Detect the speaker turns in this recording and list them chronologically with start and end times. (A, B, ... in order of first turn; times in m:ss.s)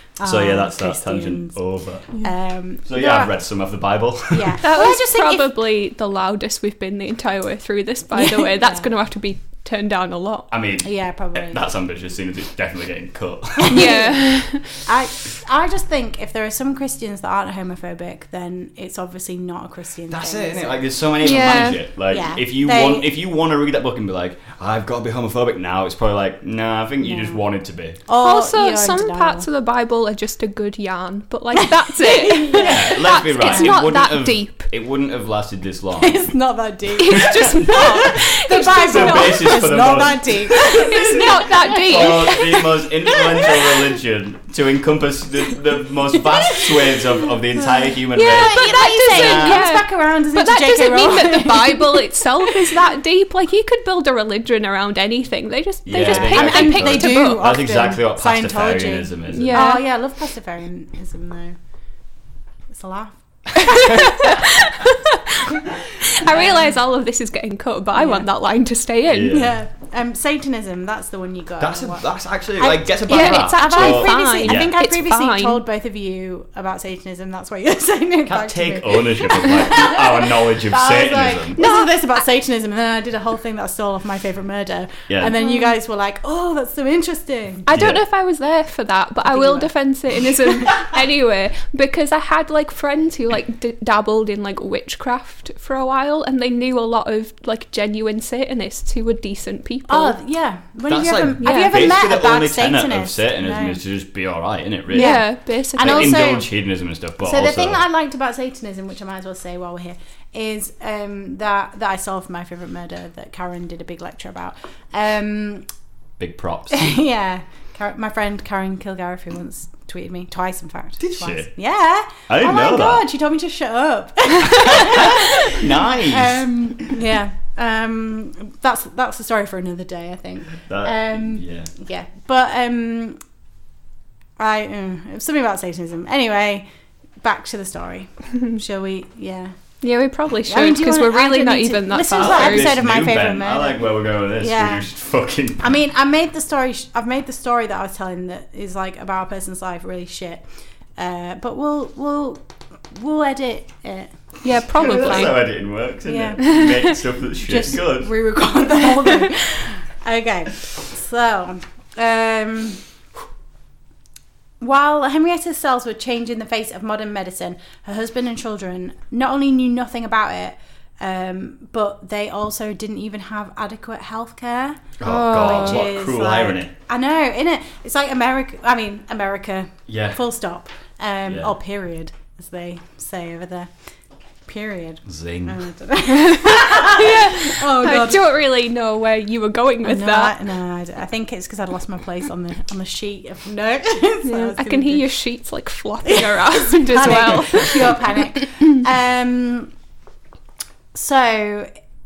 0:00.2-0:01.6 A
0:00.2-0:02.1 B
0:02.1-0:03.3 A
0:02.8-0:04.6 B
0:04.3-0:05.5 A
0:04.6-0:10.5 C
0:08.1-0:08.9 A
0:10.5-0:13.9 B
0:10.8-0:11.6 A
0:13.6-0:20.9 A
0:13.7-0:14.7 C
0:20.1-0:28.0 B
0:21.2-0:21.8 C
0:22.1-0:23.1 A
0:27.0-0:27.4 A
0:28.0-0:29.5 A
0:28.2-0:34.7 C
0:31.6-0:33.9 A
0:32.5-0:36.3 B
0:36.0-0:43.8 A
0:37.0-0:39.7 C
0:37.1-0:38.1 B
0:38.8-0:49.6 B
0:40.6-0:42.4 C
0:46.1-0:47.0 A
0:48.1-0:57.5 C
0:48.2-0:52.7 A
0:55.8-0:59.7 B
0:55.9-1:01.6 A
0:59.3-0:59.8 C
1:02.7-1:04.4 A
1:03.6-1:09.4 C
1:06.2-1:06.7 A
1:07.9-1:08.3 A
1:09.1-1:09.6 B
1:09.3-1:12.0 A
1:11.6-1:14.7 B
1:12.6-1:27.7 A
1:13.1-1:15.6 C
1:18.3-1:21.6 B
1:21.6-1:21.9 C
1:25.1-1:25.4 B
1:25.4-1:25.7 C
1:27.7-1:40.2 C
1:27.7-1:28.0 B
1:29.2-1:29.7 A
1:39.9-1:43.8 A
1:40.9-1:47.8 B
1:41.4-1:42.0 C
1:44.9-1:46.5 A
1:44.9-1:46.2 C
1:47.2-1:55.7 A
1:56.2-1:56.8 B
1:56.7-2:13.2 A
2:01.0-2:01.5 B
2:02.3-2:03.0 B
2:04.4-2:06.4 B
2:10.6-2:11.7 B
2:14.4-2:16.7 A
2:17.2-2:19.6 A
2:19.8-2:22.8 C
2:20.5-2:24.9 A
2:22.1-2:25.8 B
2:25.6-2:30.4 A
2:31.0-2:35.4 A
2:34.4-2:35.4 C
2:34.8-2:38.1 B
2:36.0-2:36.7 A
2:37.4-2:42.8 A
2:44.6-3:03.7 A
2:55.0-2:56.7 B
2:55.0-2:55.8 C
2:59.9-3:00.2 B
3:04.5-3:08.3 A
3:05.1-3:05.6 B
3:06.2-3:10.4 C
3:09.8-3:15.1 A
3:14.2-3:18.2 C
3:16.0-3:19.7 A
3:20.9-3:21.7 A